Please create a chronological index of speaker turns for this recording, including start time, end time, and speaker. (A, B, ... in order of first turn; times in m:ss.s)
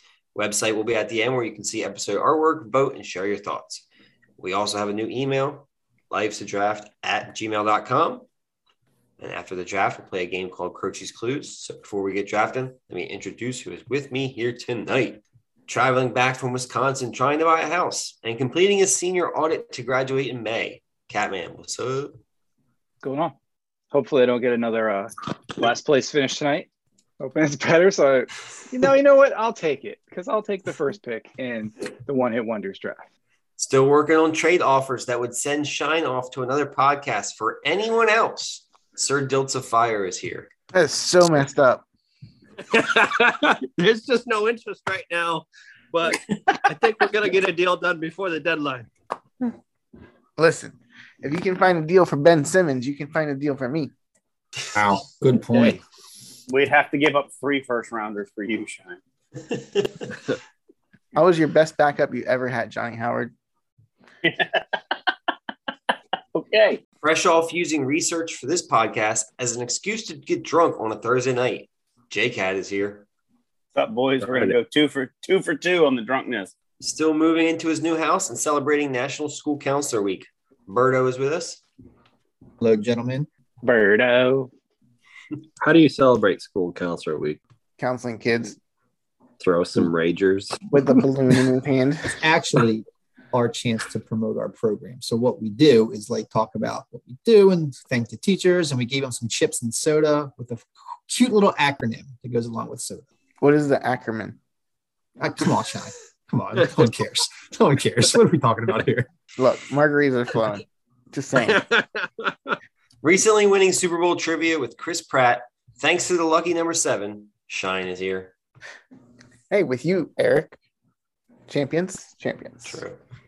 0:00.3-0:03.8 A
0:04.4-0:08.3 A
0:09.2-0:22.2 A
0:23.0-0:23.4 B
0:23.9-0:26.7 B
0:27.2-0:33.1 B
0:33.6-0:40.5 A
0:40.7-0:41.8 C
0:42.7-0:48.9 D
0:50.4-0:53.9 C
0:54.7-0:55.8 E
0:56.5-0:59.0 F
0:59.5-1:00.0 A
1:01.2-1:03.3 C
1:04.2-1:04.6 F
1:06.3-1:06.8 F
1:07.0-1:13.1 A
1:13.8-1:16.5 F
1:14.2-1:14.5 D
1:16.8-1:21.6 A
1:22.6-1:23.3 E
1:23.6-1:24.5 B
1:25.6-1:27.4 D
1:27.8-1:28.6 C
1:29.4-1:30.9 D
1:30.7-1:32.2 C
1:32.2-1:43.0 E
1:43.4-1:44.4 C
1:45.2-1:49.1 E
1:49.4-1:51.6 C
1:51.4-1:52.6 D
1:53.0-1:58.3 A
1:59.5-2:00.5 C
2:01.5-2:02.8 C
2:02.6-2:03.0 A